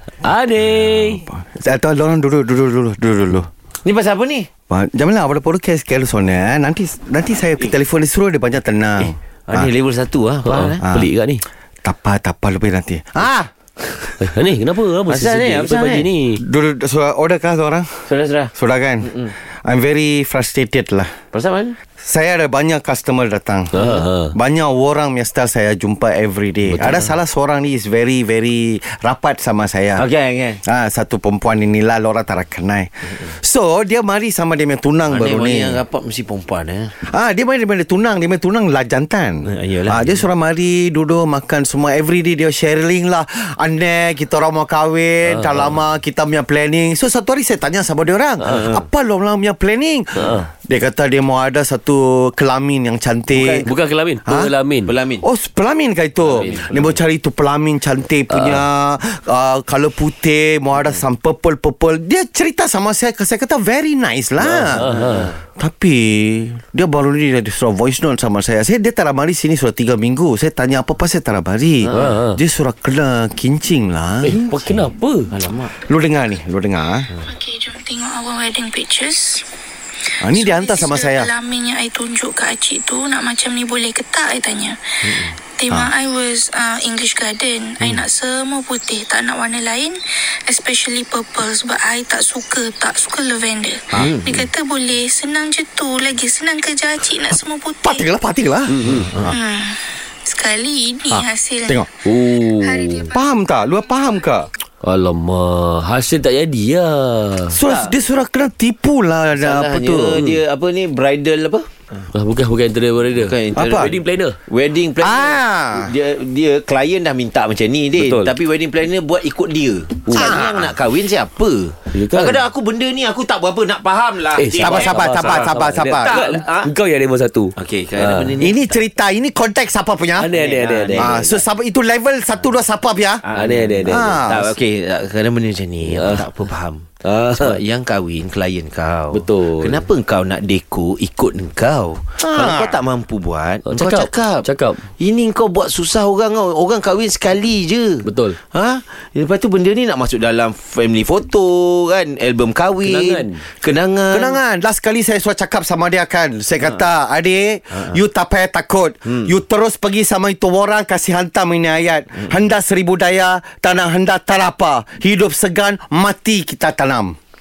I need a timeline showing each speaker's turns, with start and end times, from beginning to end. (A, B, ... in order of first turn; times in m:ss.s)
0:00.2-0:01.3 A
0:00.7-0:03.5 B
0:03.8-0:04.5 C
0:04.7-0:09.7 B
0:09.0-0:10.8 C
0:10.4-0:11.4 A
0:10.8-0:11.1 B
0:11.8-0:13.5 B
0:14.2-0:16.4 A
0:15.1-0:16.1 C
0:16.4-0:21.1 B
0:18.1-0:18.5 C
0:21.3-0:21.8 C
0:22.0-0:30.0 B
0:23.7-0:24.4 A
0:23.8-0:24.0 C
0:26.7-0:27.0 A
0:30.0-0:30.6 C
0:30.6-0:35.8 B
0:35.1-0:37.0 C
0:37.0-0:53.7 B
0:39.5-0:40.3 C
0:45.3-0:45.8 A
0:48.4-0:48.8 C
0:50.2-0:50.5 A
0:53.3-0:53.7 C
0:53.6-0:54.9 A
0:54.3-0:54.5 B
0:54.9-0:55.2 C
0:55.2-1:05.0 B
0:56.3-0:56.9 C
0:56.4-0:56.8 A
0:58.3-0:58.6 A
1:04.4-1:05.3 A
1:04.9-1:05.3 C
1:05.6-1:14.4 B
1:11.9-1:12.4 A
1:14.2-1:15.3 A
1:14.3-1:15.8 C
1:15.9-1:17.1 B
1:17.2-1:19.5 D
1:20.2-1:21.3 B
1:20.3-1:38.1 D
1:25.0-1:25.4 C
1:34.0-1:34.5 C
1:37.8-1:38.8 B
1:38.7-1:39.3 A
1:38.8-1:39.3 C
1:39.2-1:43.2 D
1:41.1-1:41.9 B
1:42.0-1:43.1 A
1:43.1-1:44.5 B
1:44.8-1:47.6 A
1:47.5-1:50.2 B
1:47.7-1:47.9 C
1:49.3-1:51.8 C
1:52.1-1:54.4 A
1:53.1-1:53.9 C
1:53.6-1:53.9 B
1:54.5-2:06.7 C
1:55.0-1:55.9 B
1:58.0-1:58.3 A
2:00.1-2:00.4 A
2:00.1-2:00.7 B
2:01.9-2:02.5 A
2:04.4-2:08.3 A
2:04.6-2:06.2 B
2:07.6-2:08.8 C
2:08.4-2:10.3 B
2:10.2-2:11.2 A
2:10.3-2:11.4 C
2:11.0-2:13.2 B
2:13.2-2:34.4 C
2:13.3-2:14.2 A
2:13.8-2:14.5 B
2:15.9-2:16.3 A
2:17.1-2:17.6 A
2:19.1-2:19.8 A
2:22.2-2:22.8 B
2:23.6-2:24.9 A
2:28.0-2:28.4 A
2:32.8-2:33.4 A
2:34.1-2:47.2 B
2:37.7-2:38.0 C